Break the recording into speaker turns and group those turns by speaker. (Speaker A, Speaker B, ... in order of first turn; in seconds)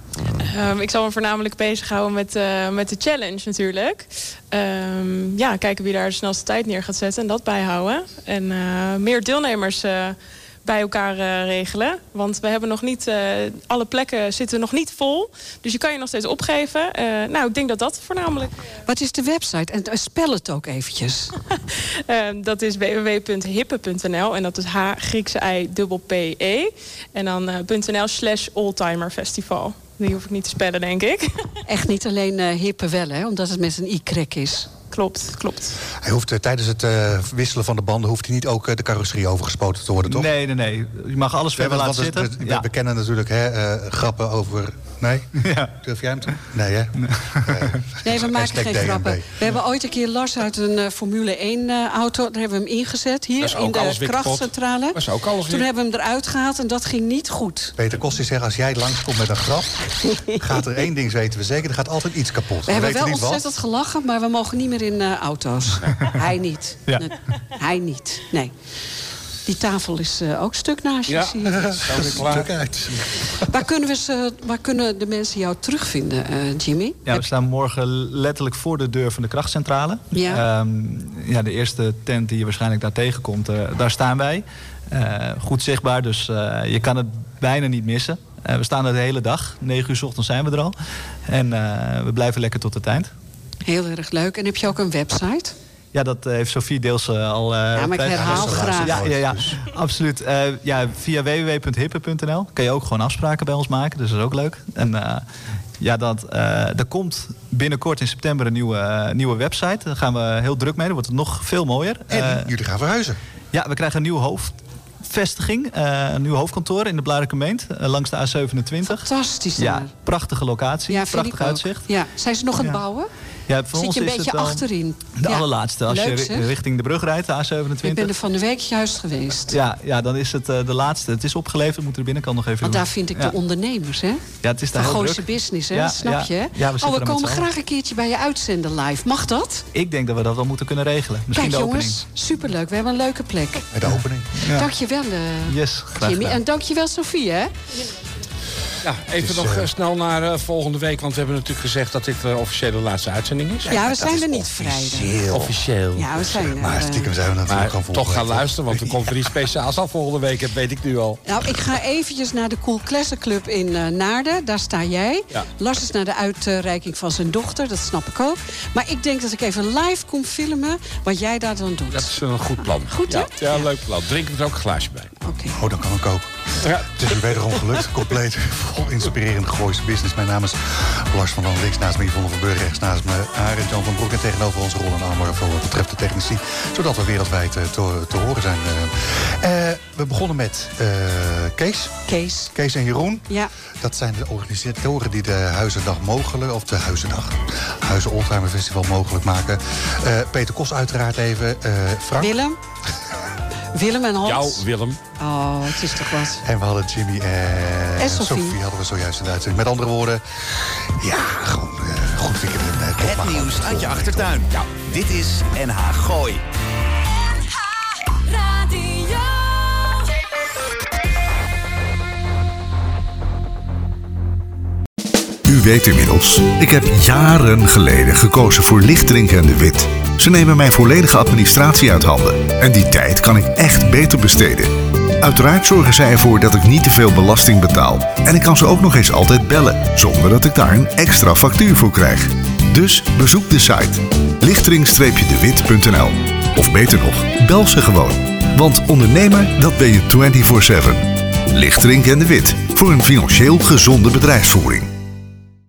Speaker A: 0.3-18.6, 21.5-31.4, 34.9-35.8
Speaker B: 18.9-21.3, 31.6-34.7, 48.0-57.7, 62.6-68.5, 69.5-71.9, 73.5-77.2, 80.1-80.4, 93.6-95.5, 97.7-99.0, 118.8-119.9, 120.9-123.1, 123.7-126.5, 127.8-129.6, 132.6-139.7, 141.3-143.7, 144.4-147.5, 153.7-155.2, 155.9-157.1, 161.2-172.1, 172.8-173.7, 175.2-175.6, 192.1-192.5, 202.2-202.6, 203.7-204.6, 205.2-206.4, 208.0-208.6
Speaker C: 35.9-40.3, 41.5-49.3, 57.8-63.4, 71.7-73.0, 98.1-99.6, 112.1-113.2, 143.7-144.3, 149.2-149.7, 153.7-155.6, 156.3-159.2, 175.5-192.0, 192.5-202.3, 206.4-214.4
Speaker D: 40.1-42.6, 45.4-45.7, 47.0-47.8, 77.0-90.7, 91.3-93.1, 95.9-105.2, 105.8-112.5, 113.5-121.8, 123.5-128.1, 129.5-133.3, 134.4-137.5, 139.7-142.0, 144.4-144.7, 145.5-146.4
Speaker E: 53.4-55.6, 71.1-72.5, 148.8-153.8, 155.3-156.1, 157.5-161.2, 171.9-175.1, 204.2-205.0
Speaker F: 213.0-216.4
Speaker G: 217.2-220.1
Speaker H: 225.4-254.9